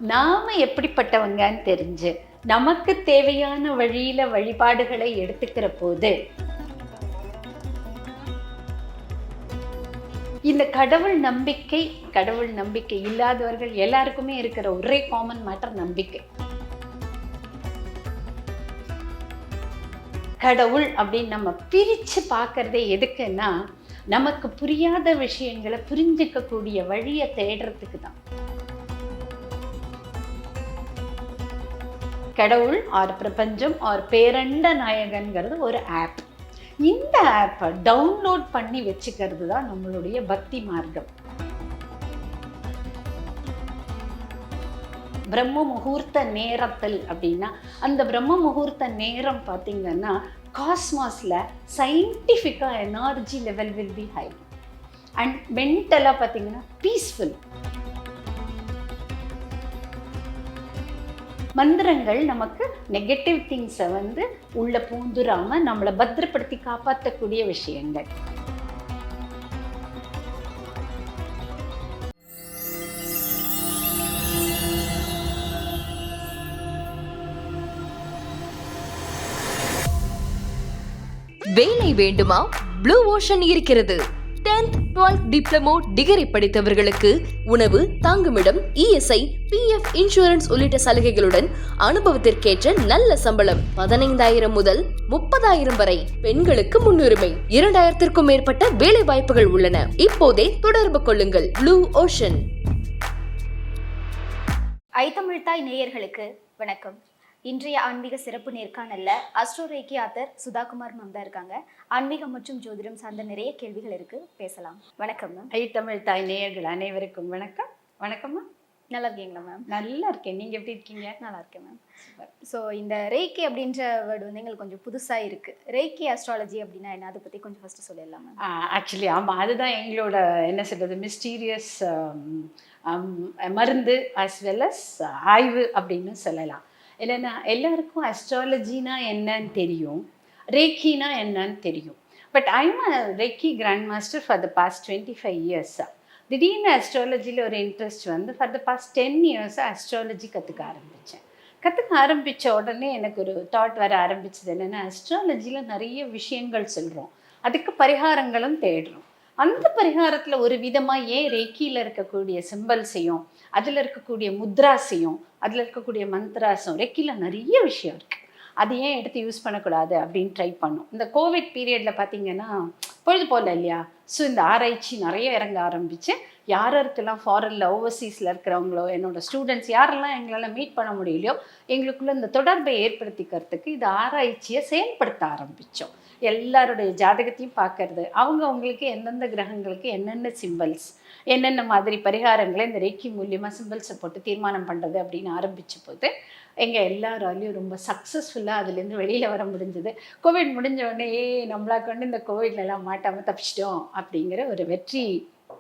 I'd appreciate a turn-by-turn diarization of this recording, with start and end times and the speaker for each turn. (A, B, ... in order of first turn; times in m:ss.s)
0:00.1-0:06.1 A
0:10.5-0:16.2 A
0:20.4-0:23.5 A
0:24.1-0:28.1 A
0:32.4-0:36.3 A
0:36.9-0:41.1 A
0:45.3-0:54.5 A
0:55.2-0:57.4 A
1:01.6-1:08.0 A
1:21.5-1:42.5 B
1:45.0-1:55.5 C
1:55.5-1:58.4 A
1:58.9-1:59.6 C
1:59.7-2:01.2 A
2:01.2-2:08.4 C
2:08.4-2:20.0 A
2:20.6-2:52.5 A
2:53.0-3:16.1 A
3:16.6-3:25.2 A